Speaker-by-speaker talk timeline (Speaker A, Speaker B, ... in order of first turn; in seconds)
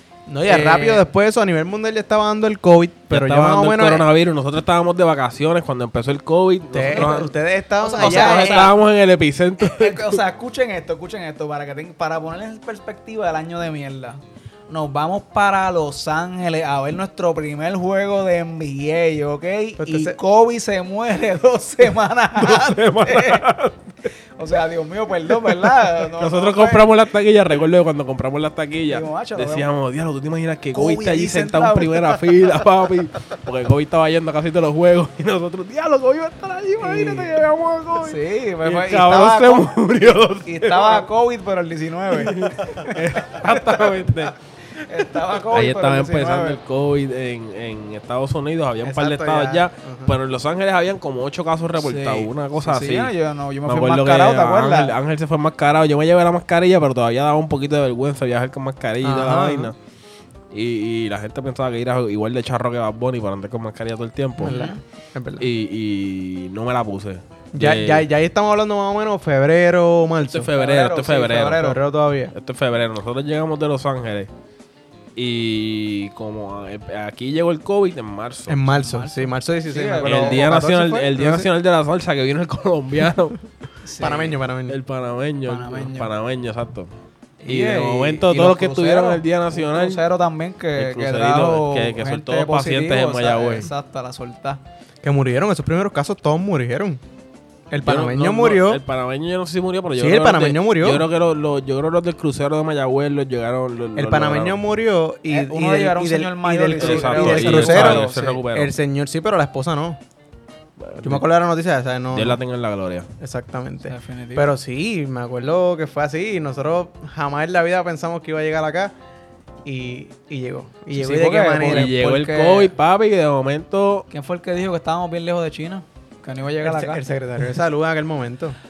Speaker A: 0.3-4.1, 6.7-8.7, 19.8-20.2, 48.8-50.2, 59.0-59.7, 64.4-65.5, 67.5-70.5, 71.6-72.3, 78.5-81.5, 84.0-84.8, 95.0-97.0, 97.7-98.8, 100.0-101.1, 104.0-110.0, 111.0-112.4, 113.2-118.9, 119.7-121.9, 126.6-128.6
Speaker B: 0.4-1.0, 6.9-8.8, 9.6-23.5, 24.4-26.9, 28.9-29.7, 30.7-32.2, 36.8-43.5, 44.8-46.6, 51.8-55.0, 64.4-64.8, 70.5-71.8, 78.7-80.5, 83.8-84.4, 85.5-86.1, 87.4-94.6, 105.3-108.4, 113.9-114.5, 120.9-122.7, 124.1-127.0
Speaker C: 3.1-7.3, 8.0-10.2, 22.4-23.8, 26.2-41.1, 42.1-44.4, 45.5-53.1, 53.7-59.8, 60.5-64.6, 65.4-68.1, 70.3-71.8, 72.3-74.3, 75.2-78.6, 80.0-83.4, 84.7-86.9, 87.5-90.0, 90.8-93.7, 97.8-104.6, 106.8-108.7, 110.8-111.2, 112.1-113.1, 121.7-124.1